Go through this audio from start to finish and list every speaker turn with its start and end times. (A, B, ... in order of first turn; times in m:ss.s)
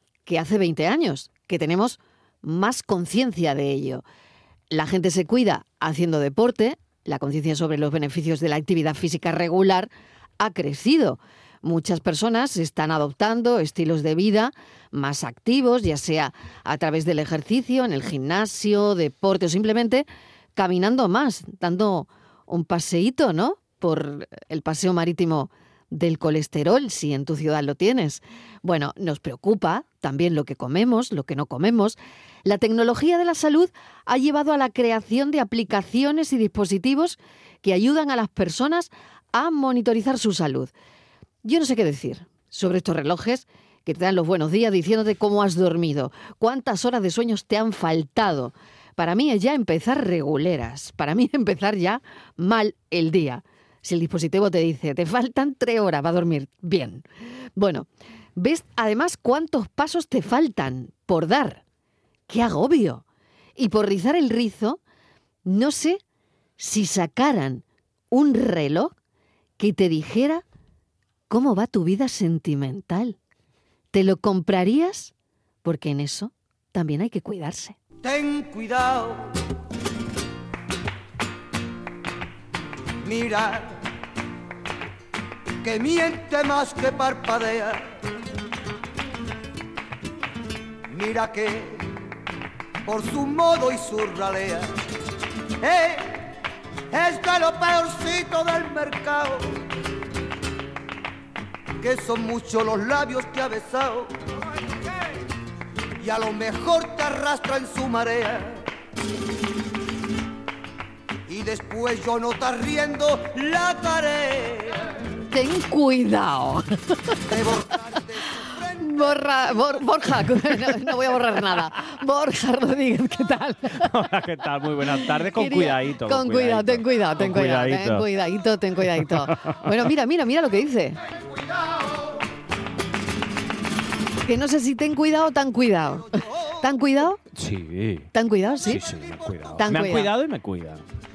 0:00.2-0:04.0 A
0:04.7-0:40.7 A
0:41.4-0:57.0 A
0:57.6-1:01.6 A
1:02.3-1:03.0 A
1:03.6-1:04.8 A
1:05.4-1:06.0 A
1:06.6-1:08.9 A
1:09.6-1:10.4 A
1:11.3-1:13.2 A
1:13.9-1:15.1 A
1:15.6-1:17.8 A
1:18.0-1:19.3 B
1:23.0-1:23.7 B
1:25.6-1:28.0 B
1:30.9-1:31.8 B
1:32.8-1:34.7 B
1:35.6-1:36.3 B
1:36.9-1:39.5 B
1:41.8-1:44.1 B
1:46.0-1:48.7 B
1:51.3-1:55.0 B
1:55.3-1:57.2 A
1:57.2-1:59.2 B
1:58.8-2:03.9 A
2:03.8-2:08.0 C
2:04.9-2:11.0 A
2:08.9-2:09.6 C
2:14.2-2:17.2 A
2:16.1-2:16.5 B
2:17.3-2:18.1 C
2:18.1-2:18.8 A
2:18.6-2:20.8 C
2:19.6-2:20.1 A